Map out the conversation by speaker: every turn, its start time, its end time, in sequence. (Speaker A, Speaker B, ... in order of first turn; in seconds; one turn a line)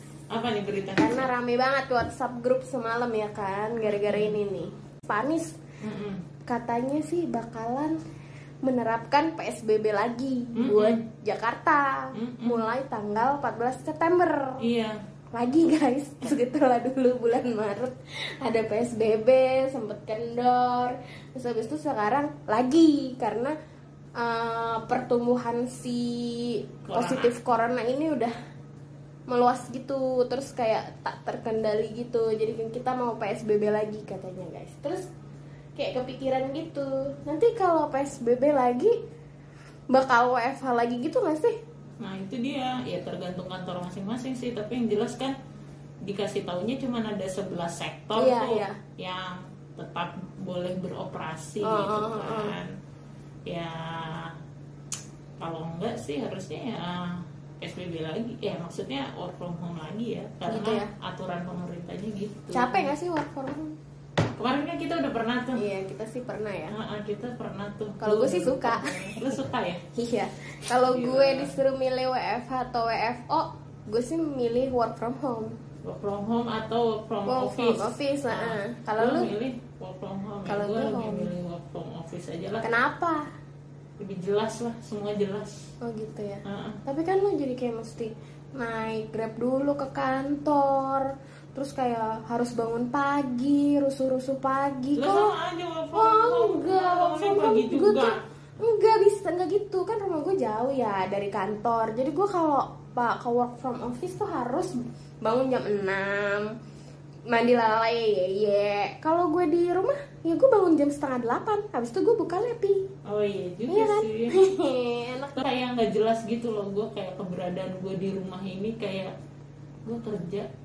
Speaker A: 0.3-1.3
Speaker B: 1.0-5.6
Speaker A: 3.9-4.4
Speaker A: 5.8-6.2
Speaker B: 6.5-8.0
Speaker B: 8.6-14.7
Speaker A: 10.5-11.0
Speaker A: 12.1-12.7
Speaker A: 14.6-15.0
Speaker B: 15.3-23.5
Speaker B: 24.2-28.3
Speaker A: 26.9-27.3
Speaker B: 29.3-35.1
Speaker B: 35.8-38.9
Speaker B: 39.9-41.6
Speaker A: 42.0-45.3
Speaker A: 46.0-52.7
Speaker B: 48.1-48.8
Speaker B: 51.6-52.5
Speaker A: 53.5-54.4
Speaker A: 55.4-62.9
Speaker B: 60.4-60.9
Speaker B: 62.5-63.8
Speaker A: 64.3-65.6
Speaker B: 65.5-66.8
Speaker A: 66.7-69.8
Speaker B: 68.0-69.3
Speaker B: 69.9-75.5
Speaker A: 70.8-71.6
Speaker A: 75.8-82.7
Speaker B: 77.2-79.3
Speaker B: 80.5-81.3
Speaker B: 82.6-83.2
Speaker A: 84.0-85.7
Speaker B: 85.8-95.3
Speaker A: 86.4-86.8
Speaker A: 94.9-98.2
Speaker B: 95.9-106.5
Speaker B: 107.3-112.8
Speaker A: 113.0-114.3
Speaker B: 113.7-115.4
Speaker A: 115.3-119.1
Speaker A: 119.8-120.5